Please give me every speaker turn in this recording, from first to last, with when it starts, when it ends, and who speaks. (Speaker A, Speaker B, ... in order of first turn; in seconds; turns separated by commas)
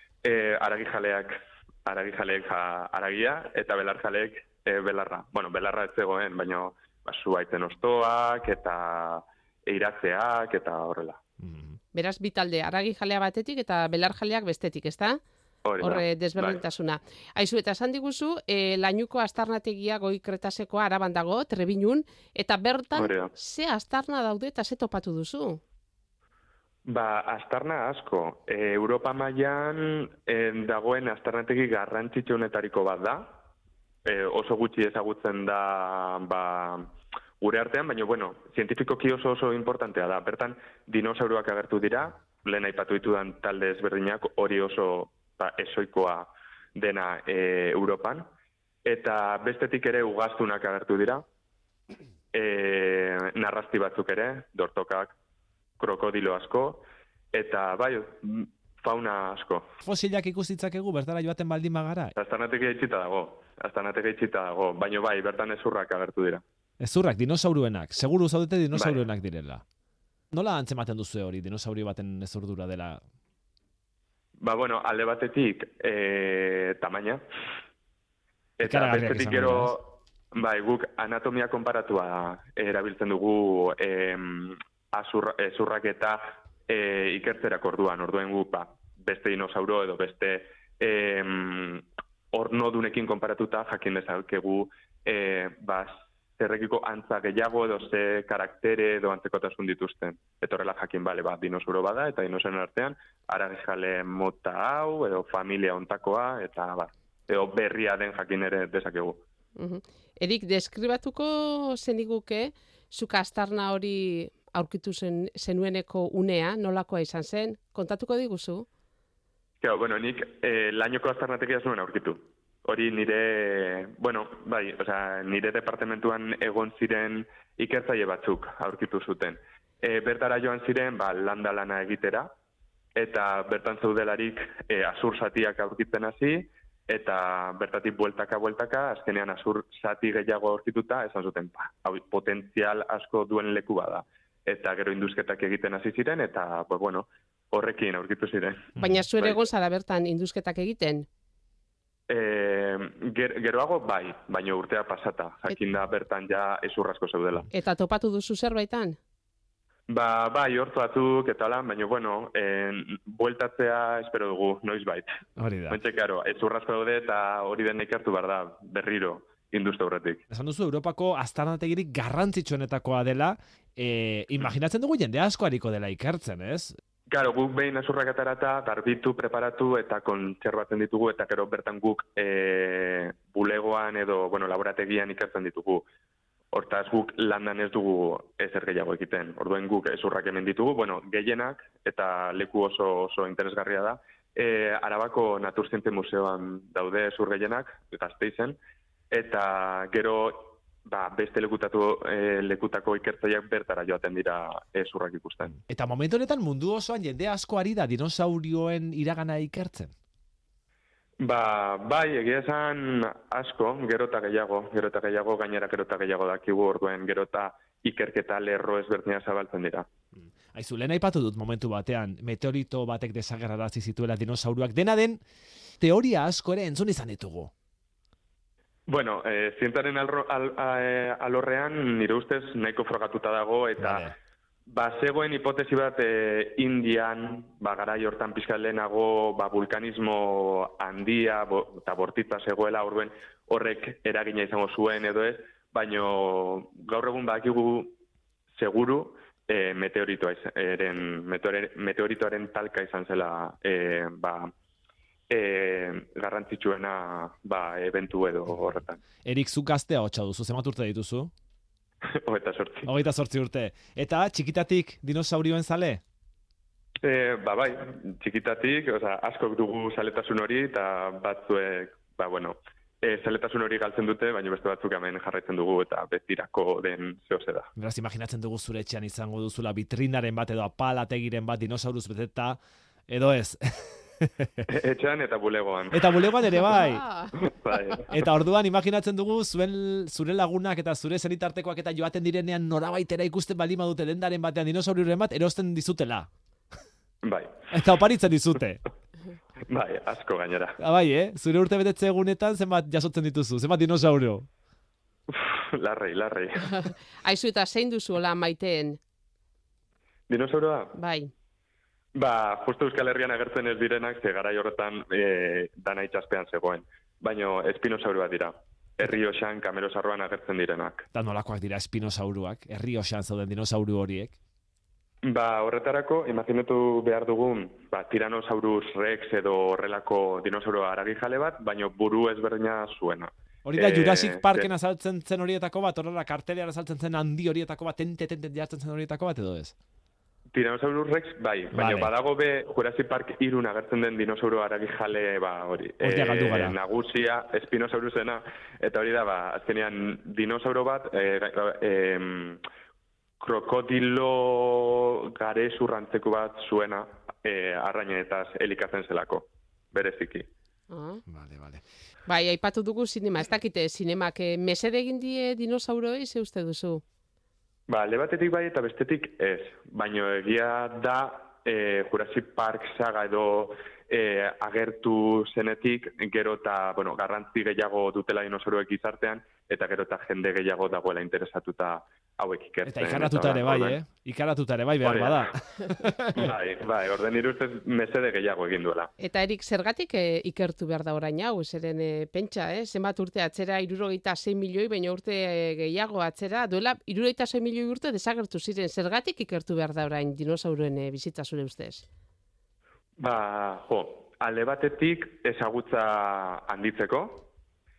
Speaker A: 0.2-11.2, Speaker B: 11.4-11.8, Speaker C: 11.9-15.2, Speaker A: 15.6-16.6, Speaker C: 15.8-25.6, Speaker A: 22.9-23.3, Speaker A: 26.9-33.4, Speaker A: 34.1-48.3, Speaker A: 48.9-51.2, Speaker A: 52.3-55.2, Speaker A: 55.8-59.7, Speaker B: 59.8-62.1, Speaker A: 62.2-66.4, Speaker B: 66.8-69.6, Speaker A: 68.7-69.0, Speaker B: 70.3-73.0, Speaker A: 74.4-77.2, Speaker A: 78.6-109.2, Speaker B: 78.6-79.8, Speaker C: 109.6-118.7, Speaker A: 119.6-132.3, Speaker A: 133.0-149.4, Speaker B: 148.8-149.1, Speaker C: 148.8-151.1, Speaker A: 152.1-157.5, Speaker C: 157.5-159.0, Speaker A: 159.9-165.1, Speaker B: 165.4-165.8, Speaker A: 165.7-170.2, Speaker B: 170.3-176.8, Speaker A: 177.1-185.8, Speaker A: 186.5-198.6, Speaker A: 199.1-205.6, Speaker B: 205.7-209.9, Speaker A: 211.2-219.9, Speaker B: 220.2-225.2, Speaker B: 225.8-227.5, Speaker A: 228.9-234.1, Speaker B: 233.8-234.1, Speaker A: 234.7-248.0, Speaker A: 248.6-254.5, Speaker A: 255.3-259.0, Speaker B: 259.2-261.3, Speaker A: 262.1-262.9, Speaker B: 262.9-266.0, Speaker A: 267.0-277.7, Speaker B: 277.8-284.7, Speaker A: 284.7-286.2, Speaker B: 285.9-287.0, Speaker C: 286.7-287.3, Speaker A: 287.4-288.1, Speaker B: 288.1-296.3, Speaker A: 297.2-297.6, Speaker B: 297.7-298.8, Speaker A: 299.7-300.8, Speaker B: 300.8-304.5, Speaker A: 305.3-306.8, Speaker C: 306.6-309.0, Speaker A: 310.3-310.9, Speaker C: 310.9-311.3, Speaker A: 312.1-321.1, Speaker B: 321.1-324.4, Speaker A: 325.2-334.7, Speaker B: 333.6-339.7, Speaker A: 340.5-352.6, Speaker B: 341.7-342.1, Speaker B: 346.0-346.8, Speaker A: 353.4-360.5, Speaker C: 360.9-361.2, Speaker B: 361.3-361.8, Speaker C: 362.2-367.0, Speaker A: 367.9-384.0, Speaker B: 382.9-386.5, Speaker A: 385.0-385.5, Speaker A: 386.4-389.1, Speaker C: 389.2-402.1, Speaker A: 403.2-407.5